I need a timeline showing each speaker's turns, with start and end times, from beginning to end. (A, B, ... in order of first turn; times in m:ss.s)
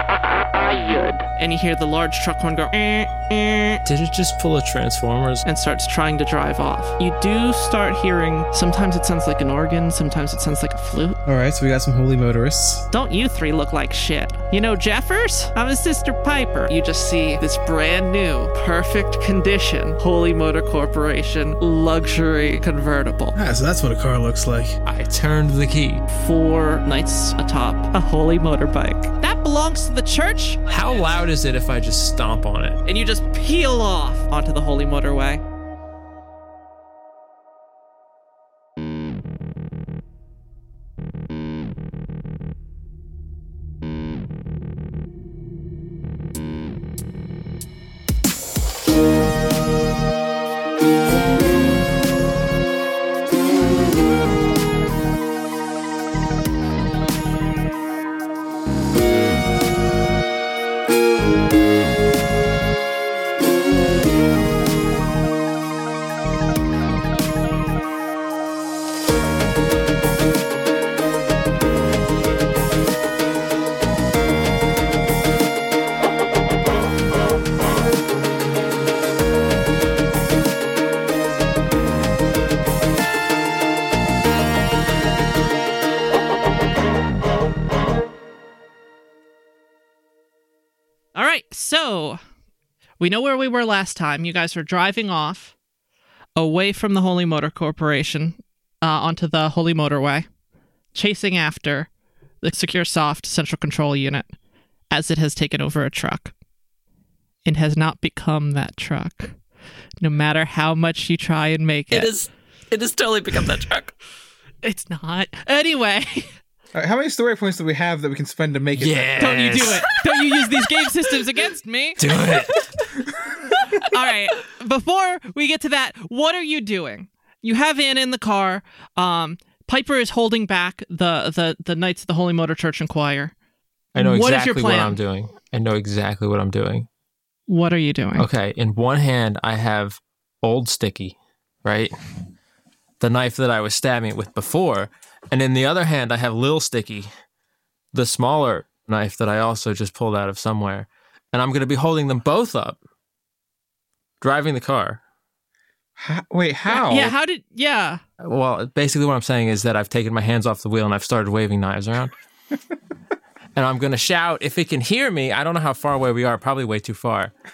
0:01.4-0:03.8 A
0:03.8-0:05.4 B
0:05.4-0:11.2 A
0:11.2-0:12.8 C
0:12.9-0:23.4 A
0:23.3-0:24.8 C
0:24.8-0:26.0 B
0:26.1-0:30.7 A
0:30.7-0:32.8 B
0:32.8-0:35.4 A
1:31.1-1:32.2 A
1:33.0-1:35.5 A
1:36.4-1:40.3 A
1:40.9-1:41.9 A
1:42.4-1:44.3 A
1:44.9-1:46.3 A
1:47.4-1:49.4 A
1:50.0-1:52.1 A
1:51.9-1:53.9 D
1:54.6-1:56.3 A
1:56.7-1:59.7 C
1:58.8-2:00.1 B
1:59.2-2:02.3 A
2:02.0-2:02.7 B
2:03.7-2:13.3 A
2:13.9-2:15.0 A
2:14.0-2:16.9 B
2:17.5-2:18.3 A
2:18.2-2:21.9 B
2:23.0-2:27.1 B
2:27.9-2:32.8 B
2:34.2-2:35.0 B
2:36.0-2:37.1 C
2:36.7-2:38.0 A
2:38.2-2:42.1 B
2:43.5-2:47.3 B